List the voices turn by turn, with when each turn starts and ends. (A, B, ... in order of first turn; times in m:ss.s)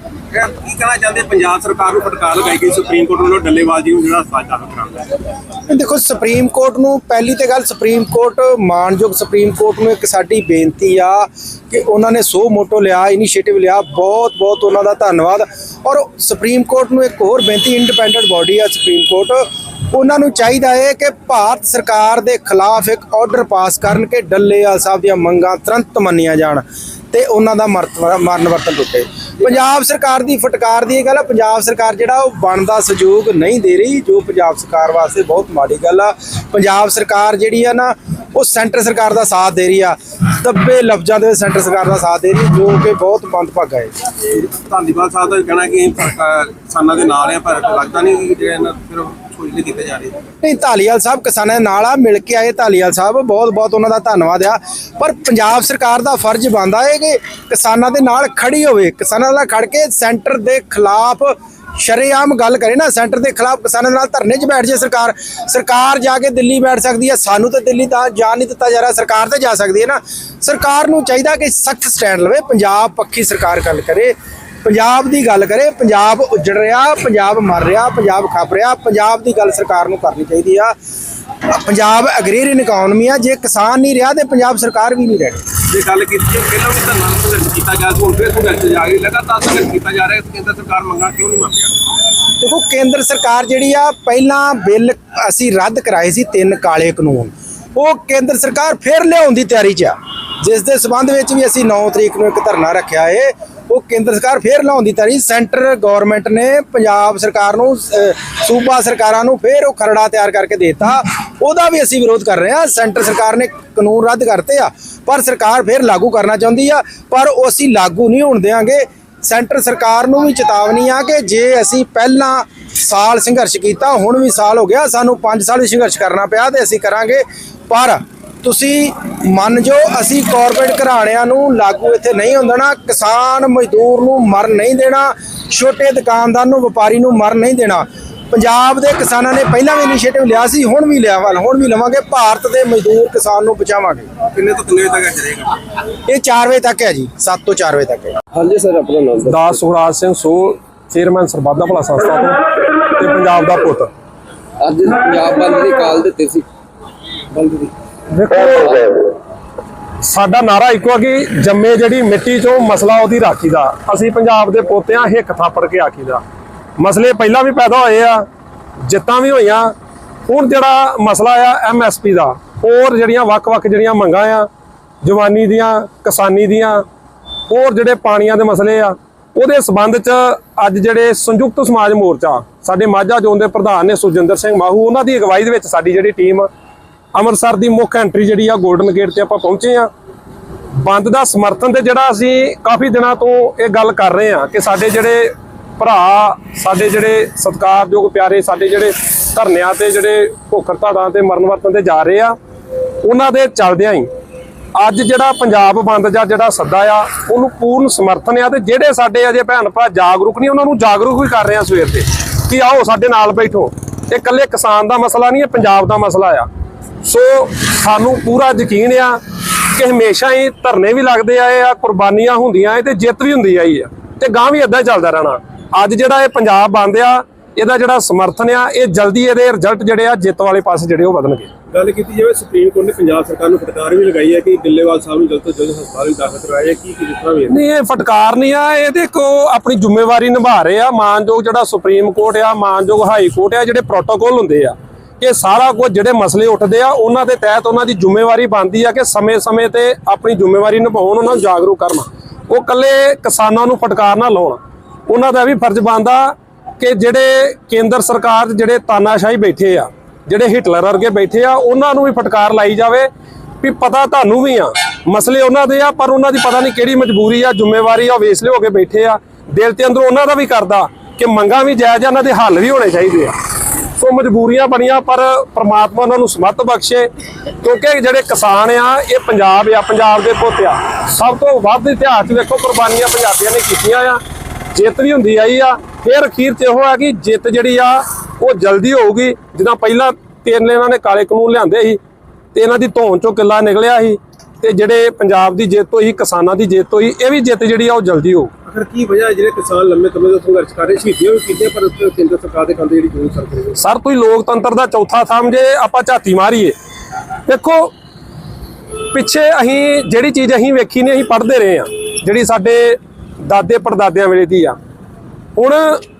0:00.3-0:05.2 A
0:05.7-0:43.9 B
0:44.3-0:50.2 A
0:50.4-1:20.7 B
1:21.4-1:25.5 B
1:25.7-1:31.8 A
1:32.4-2:24.1 B
2:24.2-2:25.6 A
2:26.1-2:28.2 B
2:28.3-2:29.5 C
2:29.2-2:33.9 D
2:34.6-2:36.4 C
2:37.3-2:37.7 A
2:37.3-2:37.7 C
2:38.1-2:39.1 D
2:40.0-2:46.2 D
2:46.8-2:48.2 D
2:48.8-2:49.7 D
2:50.3-2:54.5 D
2:55.0-2:56.8 D
2:57.5-3:06.5 D
3:07.1-3:09.9 D
3:10.7-3:22.3 D
3:23.0-3:24.1 D
3:24.7-3:36.5 D
3:37.0-3:39.2 D
3:39.7-3:51.5 D
3:51.7-3:57.6 A
3:57.5-4:23.1 D
4:23.6-4:33.3 D
4:34.0-4:37.1 D
4:37.6-4:44.2 D
4:44.7-4:52.0 D
4:52.5-4:58.5 D
4:58.6-5:03.8 A
5:03.8-5:06.7 D
5:07.5-5:07.9 D
5:09.1-5:14.8 D
5:15.6-5:16.0 D